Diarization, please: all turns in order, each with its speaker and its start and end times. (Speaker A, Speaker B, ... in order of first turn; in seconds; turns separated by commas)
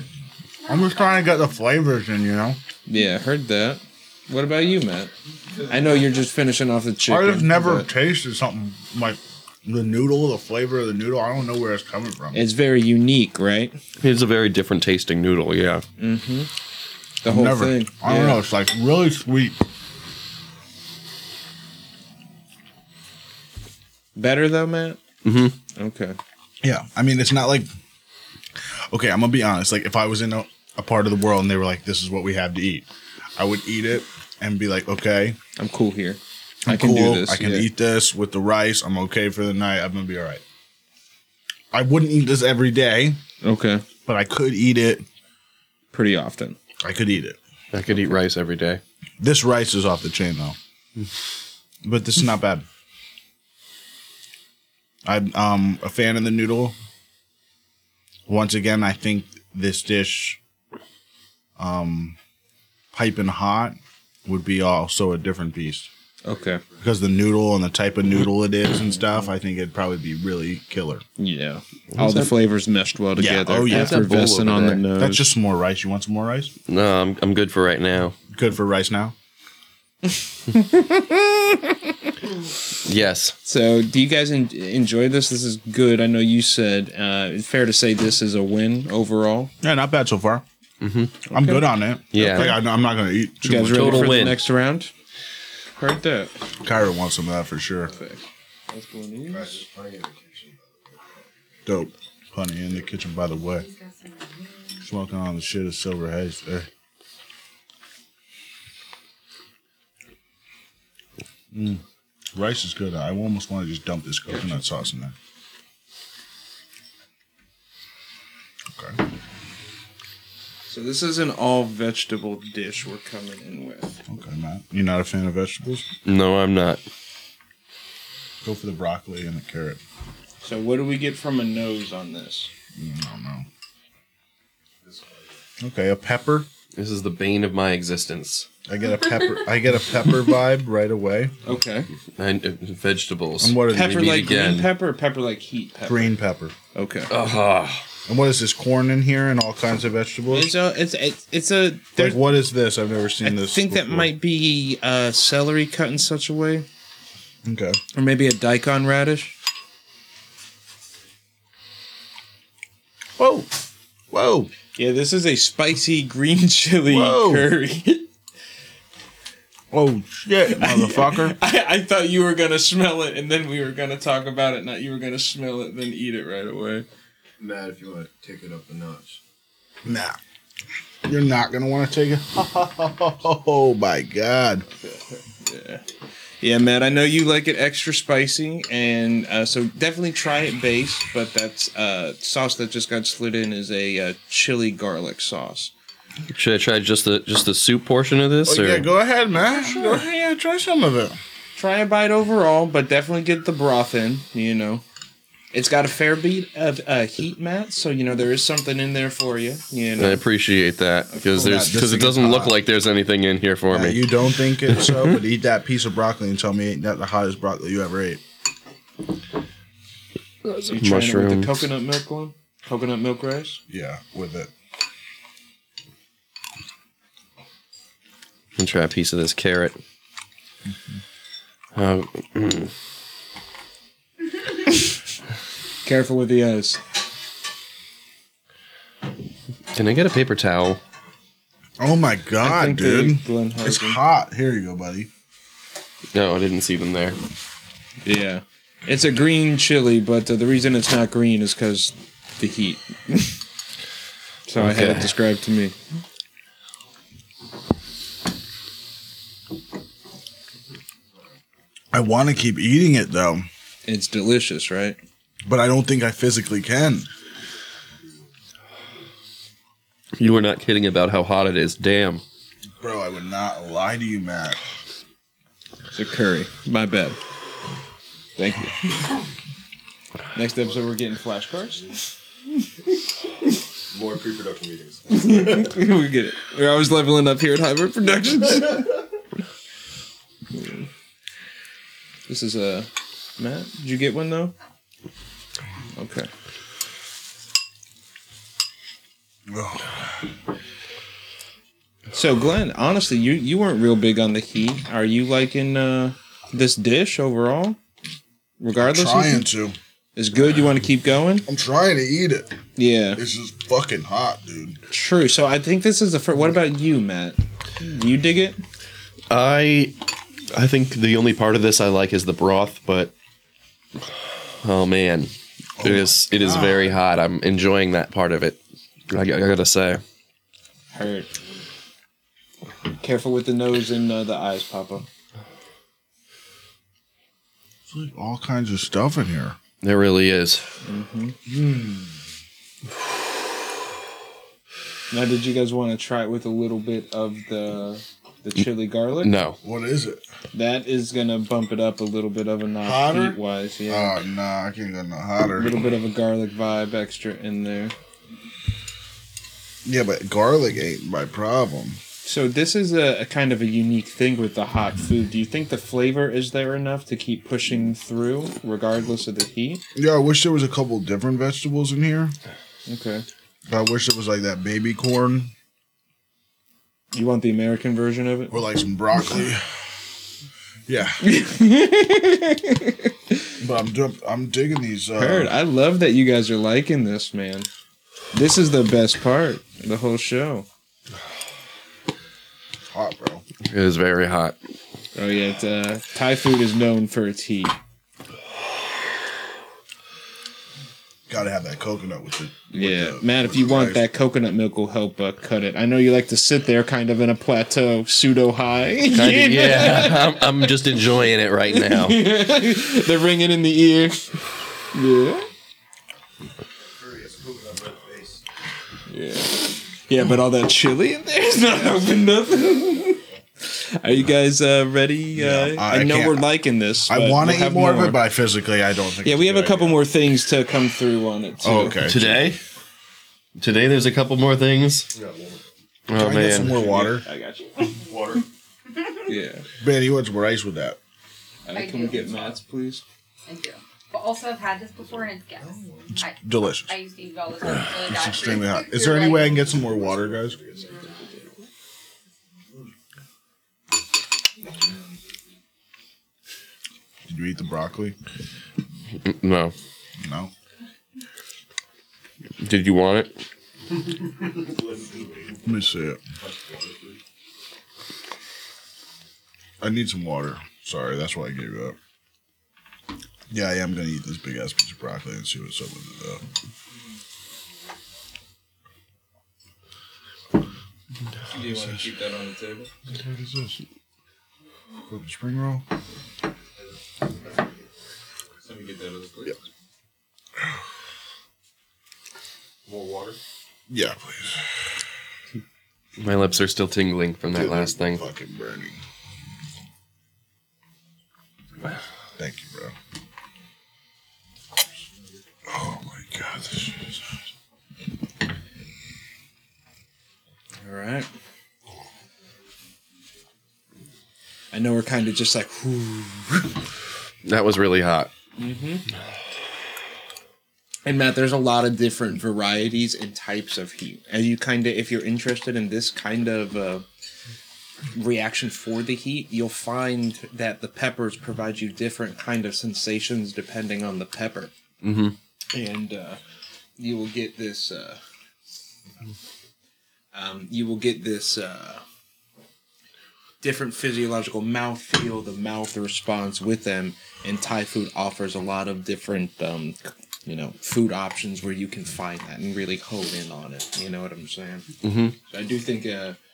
Speaker A: 0.7-2.6, Speaker B: 2.9-7.9, Speaker A: 7.1-12.4, Speaker B: 12.3-13.8, Speaker C: 14.0-15.8, Speaker B: 16.0-16.5, Speaker B: 17.2-18.4, Speaker A: 17.2-19.6, Speaker B: 24.2-25.0, Speaker C: 25.2-25.6, Speaker B: 25.7-26.2, Speaker A: 26.6-27.7, Speaker A: 28.8-35.4, Speaker B: 35.6-37.7, Speaker A: 36.6-40.4, Speaker A: 41.7-43.2, Speaker B: 43.4-43.8, Speaker A: 44.1-45.0, Speaker B: 45.9-46.6, Speaker A: 46.8-47.4, Speaker C: 47.7-48.8, Speaker A: 49.2-50.6, Speaker A: 51.8-52.7, Speaker A: 55.0-56.8, Speaker A: 58.3-60.4, Speaker A: 61.6-62.2, Speaker A: 62.9-65.9, Speaker B: 66.2-66.6, Speaker A: 66.8-71.0, Speaker B: 71.2-75.3, Speaker C: 72.0-72.3, Speaker A: 73.2-74.3, Speaker C: 73.7-74.8, Speaker A: 75.0-76.5, Speaker C: 76.7-78.2, Speaker A: 78.3-79.2, Speaker B: 80.1-82.2, Speaker C: 82.8-83.4, Speaker B: 83.5-89.5, Speaker A: 89.6-90.4, Speaker C: 90.8-91.2, Speaker A: 91.3-94.3, Speaker B: 91.3-91.7, Speaker C: 92.1-92.6, Speaker B: 93.4-94.9, Speaker C: 93.7-94.4, Speaker B: 95.8-96.3, Speaker A: 96.6-97.9, Speaker B: 97.9-99.7, Speaker D: 99.3-101.2, Speaker A: 101.7-103.7, Speaker E: 103.6-104.8, Speaker A: 104.8-106.7, Speaker A: 111.5-111.8, Speaker A: 112.3-115.2, Speaker B: 114.3-114.6, Speaker A: 118.7-119.0, Speaker B: 120.7-124.0, Speaker A: 124.1-125.9, Speaker C: 126.0-126.8, Speaker A: 128.4-129.8, Speaker B: 130.4-132.5, Speaker A: 132.8-133.5, Speaker D: 134.8-135.3, Speaker A: 135.6-136.5, Speaker C: 136.7-138.5, Speaker A: 138.7-141.3, Speaker B: 141.4-141.9, Speaker C: 142.2-144.7, Speaker A: 143.4-144.3, Speaker B: 143.7-146.1, Speaker A: 145.9-146.6, Speaker B: 146.7-147.1, Speaker C: 147.1-147.9, Speaker A: 148.1-150.5, Speaker B: 150.3-152.2, Speaker A: 152.0-154.1, Speaker B: 153.2-156.7, Speaker A: 157.4-157.8, Speaker B: 157.9-159.3, Speaker A: 163.2-163.5, Speaker A: 164.1-164.5, Speaker B: 164.8-168.1, Speaker A: 166.9-167.5, Speaker A: 169.7-171.4, Speaker B: 170.5-176.9, Speaker D: 177.4-179.2, Speaker A: 179.8-180.2, Speaker A: 181.1-184.7, Speaker B: 184.8-185.8, Speaker B: 186.4-195.7, Speaker C: 196.3-198.9, Speaker A: 198.4-201.2, Speaker B: 199.5-200.0, Speaker B: 201.6-204.8, Speaker B: 205.5-210.2, Speaker C: 210.0-214.1, Speaker A: 211.3-212.6, Speaker A: 213.7-218.2, Speaker C: 214.7-215.0, Speaker C: 220.4-221.5, Speaker B: 220.7-223.6, Speaker A: 223.7-224.5, Speaker C: 228.6-229.8, Speaker A: 230.7-230.9, Speaker C: 231.8-232.7, Speaker B: 235.8-236.8, Speaker C: 239.7-240.8, Speaker A: 241.8-245.1, Speaker B: 242.4-244.0, Speaker C: 246.1-247.2, Speaker B: 248.0-253.4, Speaker B: 254.5-255.8, Speaker C: 254.6-255.1, Speaker A: 261.9-263.5, Speaker B: 263.9-265.0, Speaker A: 265.5-267.1, Speaker C: 270.2-272.2, Speaker A: 272.8-274.6, Speaker B: 275.9-277.2, Speaker B: 278.4-278.9, Speaker B: 280.3-282.7, Speaker D: 283.9-285.8, Speaker B: 285.1-289.0, Speaker B: 290.5-290.9, Speaker B: 292.3-294.5, Speaker B: 295.9-296.3, Speaker A: 299.5-300.3, Speaker B: 302.1-307.8, Speaker B: 308.6-309.5, Speaker A: 308.8-309.8, Speaker B: 310.2-311.5, Speaker A: 311.5-312.5, Speaker B: 312.8-313.2, Speaker A: 313.1-314.8, Speaker B: 314.9-318.6, Speaker C: 319.3-323.1, Speaker C: 324.6-328.6, Speaker A: 325.8-326.9, Speaker C: 329.1-330.0, Speaker B: 330.9-331.3, Speaker B: 333.0-335.1, Speaker A: 337.9-339.6, Speaker C: 339.8-340.7, Speaker B: 340.9-341.4, Speaker A: 341.5-342.2, Speaker B: 345.1-349.3, Speaker C: 349.2-349.6, Speaker A: 349.6-350.2, Speaker B: 350.5-354.2, Speaker A: 352.8-355.7, Speaker B: 355.6-357.9, Speaker A: 359.8-362.0, Speaker B: 362.2-369.8, Speaker A: 369.9-372.4, Speaker B: 372.9-373.2, Speaker A: 373.7-375.5, Speaker B: 377.1-378.6, Speaker A: 378.5-379.8, Speaker A: 380.9-381.2, Speaker B: 381.2-383.5, Speaker A: 383.6-385.5, Speaker B: 385.2-387.7, Speaker B: 388.3-390.7, Speaker A: 392.9-393.4, Speaker C: 393.6-394.6, Speaker B: 395.1-397.7, Speaker A: 401.3-404.1, Speaker B: 402.7-410.7, Speaker C: 409.1-412.3, Speaker B: 411.7-415.5, Speaker D: 417.0-418.4, Speaker B: 419.1-428.2, Speaker A: 425.4-426.5, Speaker A: 427.1-430.1, Speaker B: 429.2-432.1, Speaker A: 431.6-432.5, Speaker C: 432.0-432.6, Speaker C: 433.6-435.1, Speaker D: 435.1-435.7, Speaker C: 436.1-436.7, Speaker A: 436.1-437.2, Speaker B: 436.5-438.0, Speaker D: 438.0-438.5, Speaker B: 439.2-439.6, Speaker A: 439.8-441.0, Speaker B: 441.6-443.0, Speaker E: 441.7-442.4, Speaker E: 443.5-449.9, Speaker A: 446.4-447.0, Speaker A: 448.0-450.6, Speaker D: 450.2-450.9, Speaker E: 450.9-451.5, Speaker A: 457.3-458.2, Speaker C: 459.2-459.8, Speaker A: 460.2-460.5, Speaker C: 462.6-463.3, Speaker D: 464.4-465.6, Speaker A: 465.6-466.2, Speaker D: 466.4-467.2, Speaker A: 469.8-472.0, Speaker A: 473.5-476.4, Speaker B: 481.5-482.9, Speaker A: 483.1-483.8, Speaker A: 485.1-485.9, Speaker B: 488.6-489.6, Speaker D: 492.9-493.4, Speaker A: 493.9-494.8, Speaker C: 496.2-498.2, Speaker A: 497.5-499.0, Speaker A: 502.4-502.9, Speaker A: 505.7-507.2, Speaker B: 510.8-511.3, Speaker B: 514.7-516.8, Speaker C: 517.4-518.3, Speaker B: 518.6-519.0, Speaker B: 521.0-527.1, Speaker B: 528.1-534.7, Speaker C: 535.0-535.4, Speaker B: 535.7-536.4, Speaker B: 537.0-538.2, Speaker B: 540.3-542.0, Speaker B: 543.6-554.9, Speaker C: 555.0-555.4, Speaker B: 555.5-556.4